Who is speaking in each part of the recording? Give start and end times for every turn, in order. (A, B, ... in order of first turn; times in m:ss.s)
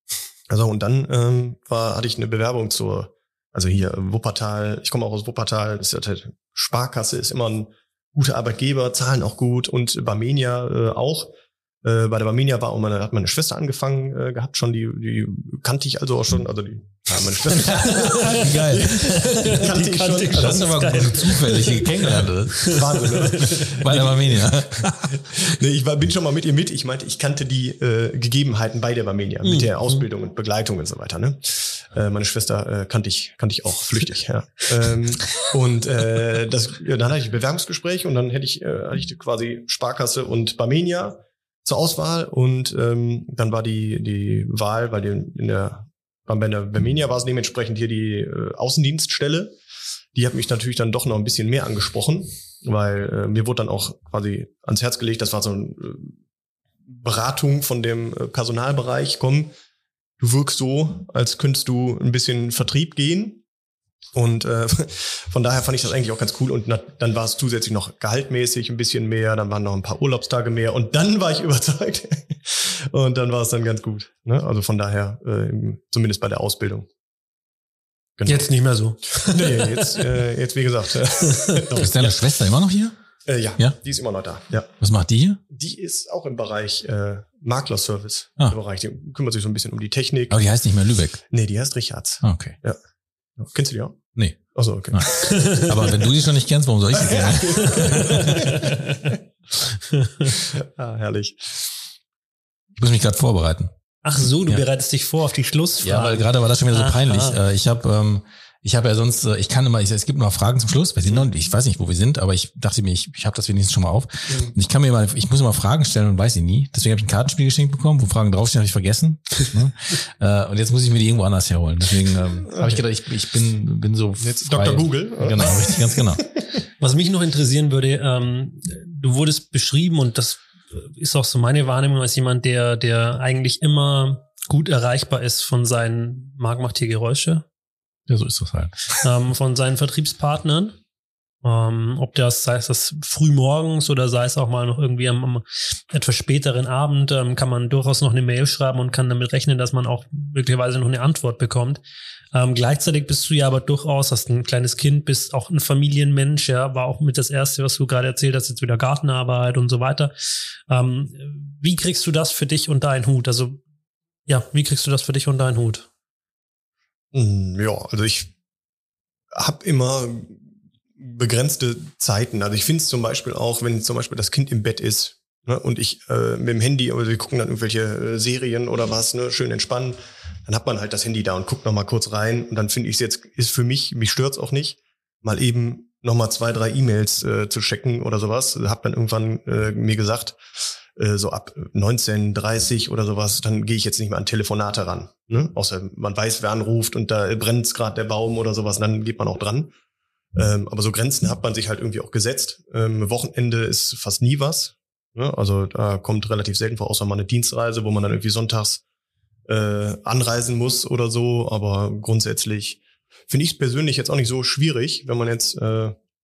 0:00.5-0:11.3 A
0:11.8-0:21.4 A
0:17.7-0:19.6 B
0:17.8-0:23.6 C
0:20.3-0:25.5 B
0:22.7-0:49.5 A
0:29.4-0:30.0 C
0:50.1-0:56.1 A
0:56.9-0:59.5 A
1:00.2-1:03.4 A
1:04.1-1:16.9 A
1:18.2-1:18.5 A
1:18.2-1:20.0 C
1:19.1-1:22.2 A
1:21.3-1:21.6 C
1:21.7-1:22.9 B
1:23.3-1:24.7 A
1:24.8-1:25.4 B
1:25.5-1:30.4 A
1:30.3-1:31.2 B
1:31.3-1:32.8 A
1:32.2-1:32.6 B
1:33.4-1:34.0 A
1:34.5-1:35.3 A
1:34.9-1:38.6 B
1:35.2-1:35.7 C
1:37.0-1:38.7 A
1:37.8-1:39.0 C
1:39.9-1:40.3 C
1:40.5-1:41.7 A
1:42.8-1:43.7 B
1:44.0-1:47.4 C
1:45.8-2:06.2 B
2:02.5-2:02.8 A
2:04.2-2:06.4 A
2:06.8-2:17.4 C
2:18.1-2:18.7 B
2:19.0-2:20.8 C
2:21.4-2:31.8 C
2:32.3-2:40.1 C
2:40.7-2:43.6 C
2:44.3-2:45.9 C
2:47.1-2:48.3 A
2:49.3-2:50.4 A
2:51.0-3:19.7 A
3:20.3-3:28.8 A
3:29.5-3:36.0 A